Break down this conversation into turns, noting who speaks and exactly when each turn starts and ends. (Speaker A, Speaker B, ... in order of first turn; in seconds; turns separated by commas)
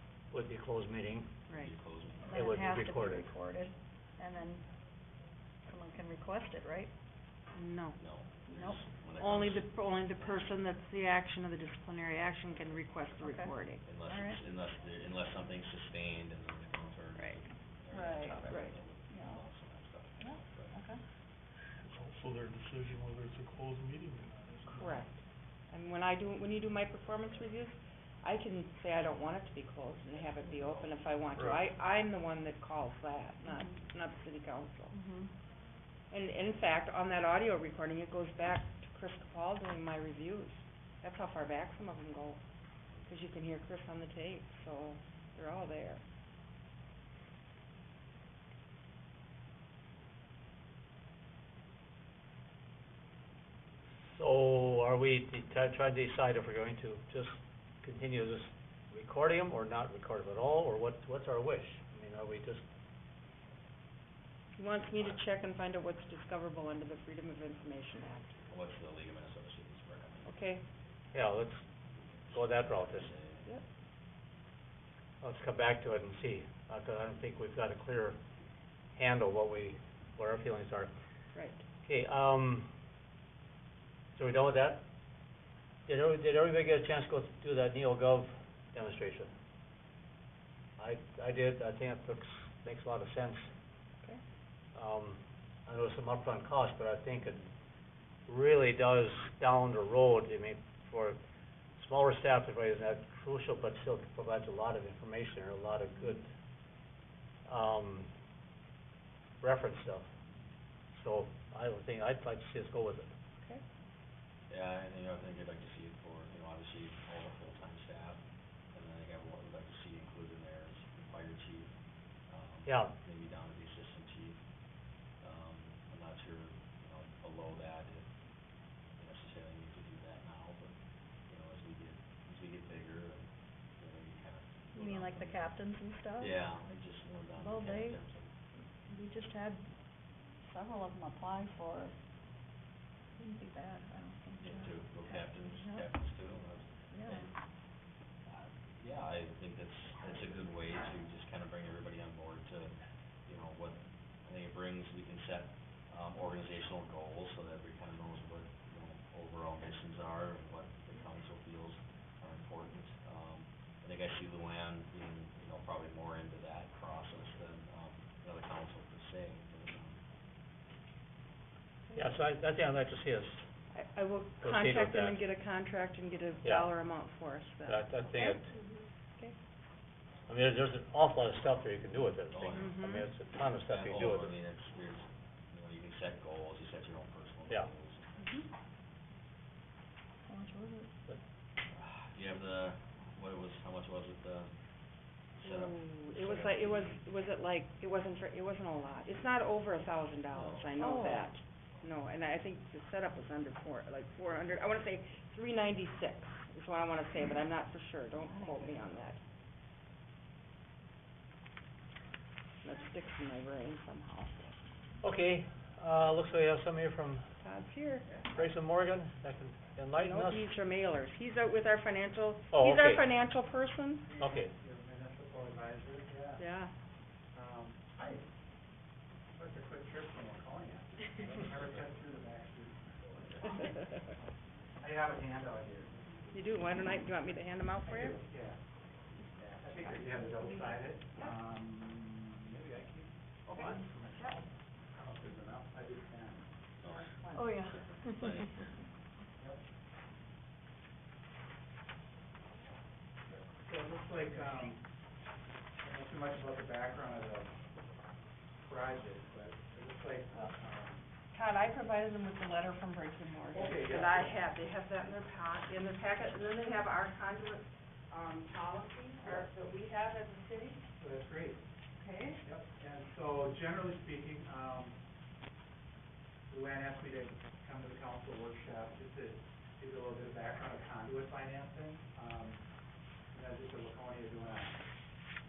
Speaker A: 0.3-1.3, Speaker B: 1.5-1.8, Speaker C: 1.6-2.4, Speaker D: 2.2-4.7, Speaker A: 2.3-3.3, Speaker D: 5.7-6.9, Speaker B: 7.5-8.0, Speaker C: 8.0-10.5, Speaker D: 8.5-8.8, Speaker B: 9.2-13.8, Speaker D: 13.2-14.4, Speaker C: 13.8-20.8, Speaker D: 17.9-18.5, Speaker B: 18.5-18.8, Speaker D: 19.1-19.4, Speaker E: 21.8-25.0, Speaker B: 24.8-35.0, Speaker C: 30.1-30.9, Speaker D: 33.5-33.7, Speaker D: 34.9-35.3, Speaker B: 36.1-42.4, Speaker B: 43.1-46.0, Speaker A: 54.1-62.6, Speaker B: 64.6-68.3, Speaker C: 68.5-70.4, Speaker B: 70.2-70.6, Speaker A: 71.1-71.6, Speaker C: 72.0-73.5, Speaker A: 72.3-73.1, Speaker A: 75.2-78.2, Speaker A: 79.0-80.9, Speaker B: 81.3-81.6, Speaker A: 81.9-82.7, Speaker A: 84.2-84.8, Speaker A: 85.9-89.3, Speaker A: 90.8-93.5, Speaker A: 94.8-97.5, Speaker A: 98.3-101.2, Speaker A: 101.8-106.3, Speaker A: 107.5-108.1, Speaker A: 109.4-110.1, Speaker A: 110.9-113.1, Speaker C: 114.5-118.2, Speaker C: 118.7-121.7, Speaker C: 122.3-124.4, Speaker A: 122.7-122.9, Speaker C: 125.2-128.1, Speaker C: 129.0-130.7, Speaker C: 131.3-133.3, Speaker C: 133.8-135.5, Speaker D: 134.7-136.5, Speaker C: 136.2-138.3, Speaker D: 137.3-138.0, Speaker D: 138.9-139.7, Speaker D: 140.4-141.9, Speaker D: 143.2-145.9, Speaker C: 144.4-147.3, Speaker D: 146.9-147.3, Speaker C: 148.3-152.7, Speaker C: 153.3-170.0, Speaker A: 171.9-173.5, Speaker B: 173.7-178.4, Speaker A: 174.4-175.2, Speaker A: 176.4-176.7, Speaker A: 177.7-178.5, Speaker A: 180.3-184.3, Speaker C: 182.3-182.8, Speaker B: 182.6-183.1, Speaker C: 183.7-188.2, Speaker B: 188.2-188.5, Speaker D: 190.3-190.9, Speaker C: 191.7-194.5, Speaker C: 195.4-197.0, Speaker B: 195.4-209.2, Speaker C: 200.3-200.8, Speaker D: 200.8-201.3, Speaker B: 212.6-214.5, Speaker A: 215.0-217.2, Speaker B: 217.4-218.1, Speaker A: 218.3-220.4, Speaker B: 220.0-224.1, Speaker A: 222.5-223.0, Speaker F: 224.1-226.4, Speaker A: 224.2-224.5, Speaker B: 226.4-226.7, Speaker F: 227.3-228.2, Speaker F: 229.4-233.5, Speaker F: 234.8-236.2, Speaker B: 236.3-238.2, Speaker F: 237.9-238.5, Speaker F: 239.6-244.2, Speaker B: 239.9-241.4, Speaker B: 243.5-244.4, Speaker F: 245.0-246.4, Speaker C: 246.8-248.7, Speaker B: 246.8-247.7, Speaker D: 247.3-248.7, Speaker F: 253.3-254.8, Speaker F: 255.8-257.5, Speaker F: 258.6-261.0, Speaker B: 261.3-270.8, Speaker F: 263.6-264.1, Speaker F: 271.0-271.6, Speaker B: 272.0-272.4, Speaker F: 272.4-274.9, Speaker F: 276.5-282.6, Speaker F: 283.3-284.8